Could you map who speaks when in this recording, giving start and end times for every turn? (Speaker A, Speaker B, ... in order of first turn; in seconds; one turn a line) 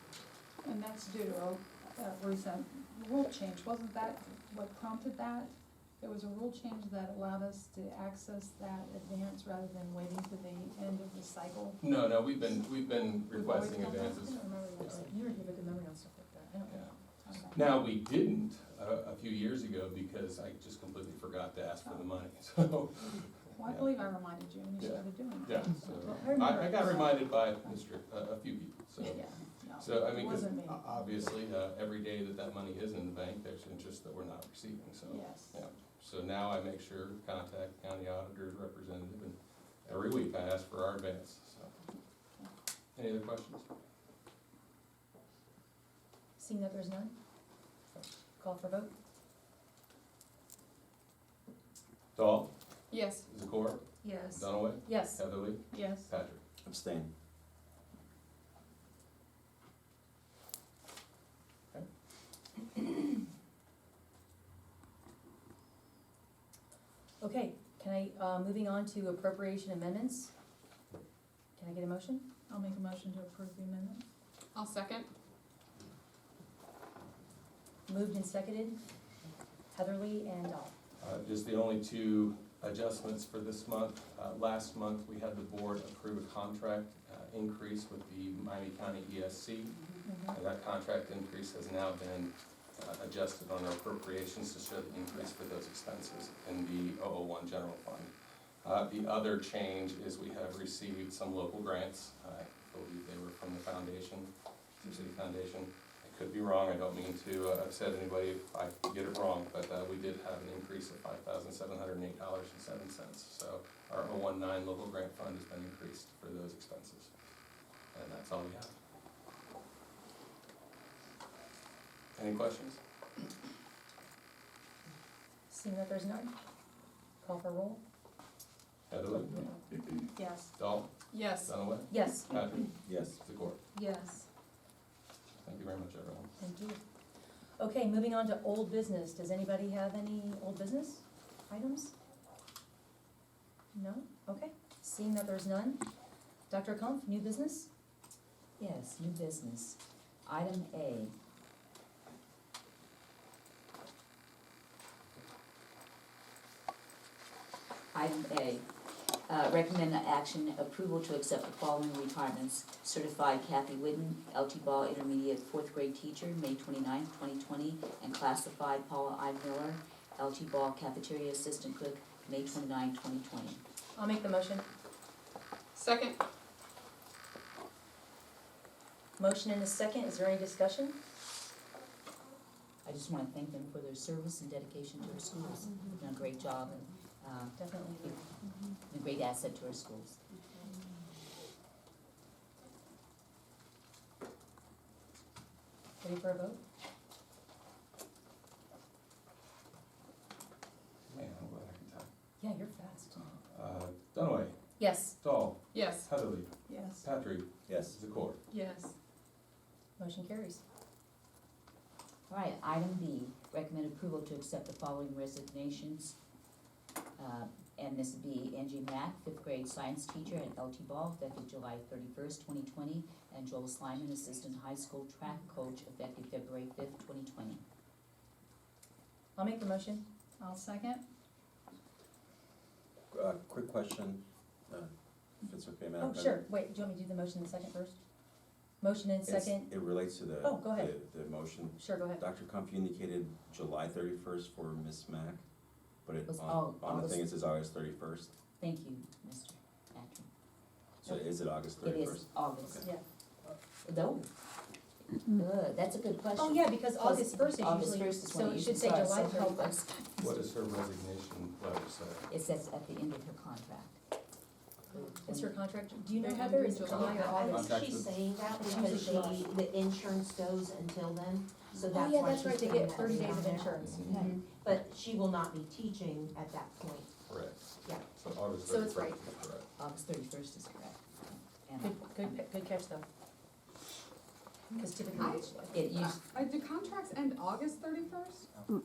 Speaker A: 0.6-12.7
Speaker B: 11.8-15.0
Speaker A: 13.2-15.1
Speaker C: 14.8-17.4
Speaker B: 16.7-17.0
Speaker A: 17.2-17.7
Speaker B: 17.5-23.9
Speaker A: 21.9-22.1
Speaker A: 23.6-25.9
Speaker B: 24.8-29.2
Speaker C: 26.1-27.1
Speaker A: 29.0-30.9
Speaker B: 29.8-41.8
Speaker A: 35.0-35.6
Speaker B: 43.0-43.7
Speaker C: 46.4-47.1
Speaker C: 48.4-48.9
Speaker B: 52.1-52.5
Speaker D: 52.9-53.2
Speaker B: 53.3-56.4
Speaker C: 54.0-55.2
Speaker A: 55.7-56.1
Speaker E: 56.6-57.1
Speaker C: 67.2-70.3
Speaker C: 71.6-72.3
Speaker A: 72.5-74.0
Speaker D: 74.5-75.1
Speaker C: 77.9-78.8
Speaker C: 79.7-80.7
Speaker B: 81.0-89.8
Speaker C: 90.0-90.4
Speaker B: 90.3-98.1
Speaker B: 98.6-104.3
Speaker B: 104.8-117.1
Speaker B: 117.9-118.7
Speaker B: 122.2-122.8
Speaker C: 125.5-126.3
Speaker C: 127.2-127.8
Speaker B: 128.9-130.9
Speaker A: 130.2-130.5
Speaker D: 131.1-131.5
Speaker B: 131.4-133.6
Speaker C: 131.9-132.5
Speaker E: 132.8-133.2
Speaker C: 133.7-134.3
Speaker B: 135.4-136.3
Speaker C: 136.4-136.8
Speaker C: 137.6-141.9
Speaker C: 143.7-145.8
Speaker C: 146.5-147.7
Speaker F: 148.6-151.1
Speaker F: 157.9-158.7
Speaker F: 159.3-173.6
Speaker C: 173.9-174.7
Speaker D: 175.8-176.2
Speaker C: 179.2-181.0
Speaker F: 182.8-188.2
Speaker C: 187.6-188.2
Speaker F: 188.9-190.2
Speaker C: 196.0-196.6
Speaker B: 201.1-202.1
Speaker C: 202.4-203.2
Speaker B: 203.5-204.6
Speaker C: 204.8-205.2
Speaker B: 205.2-206.5
Speaker D: 205.7-206.1
Speaker A: 206.7-207.1
Speaker B: 207.0-208.4
Speaker E: 207.7-208.0
Speaker D: 208.5-208.9
Speaker C: 210.0-210.6
Speaker F: 212.3-216.2
Speaker F: 217.2-227.6
Speaker C: 229.4-230.1
Speaker A: 230.4-231.0
Speaker E: 233.1-236.4
Speaker C: 236.0-238.0
Speaker C: 238.8-239.7
Speaker E: 239.3-245.4
Speaker C: 240.4-240.9
Speaker C: 241.8-242.2
Speaker E: 246.1-248.3
Speaker F: 246.3-247.3
Speaker F: 248.6-250.3
Speaker E: 251.0-252.9
Speaker F: 251.8-252.9
Speaker F: 253.5-254.3
Speaker F: 255.1-260.4
Speaker C: 256.4-259.8
Speaker B: 260.2-262.3
Speaker F: 262.3-264.0
Speaker F: 264.9-265.6
Speaker C: 265.2-267.8
Speaker A: 266.2-267.1
Speaker G: 266.8-277.1
Speaker B: 267.5-268.1
Speaker C: 268.6-269.5
Speaker F: 268.7-269.0
Speaker C: 271.9-274.4
Speaker B: 273.8-274.1
Speaker F: 274.0-274.4
Speaker B: 277.3-279.7
Speaker C: 278.7-279.2
Speaker F: 279.8-282.4
Speaker C: 281.8-283.1
Speaker C: 284.8-285.9
Speaker D: 285.1-288.5
Speaker F: 285.7-286.2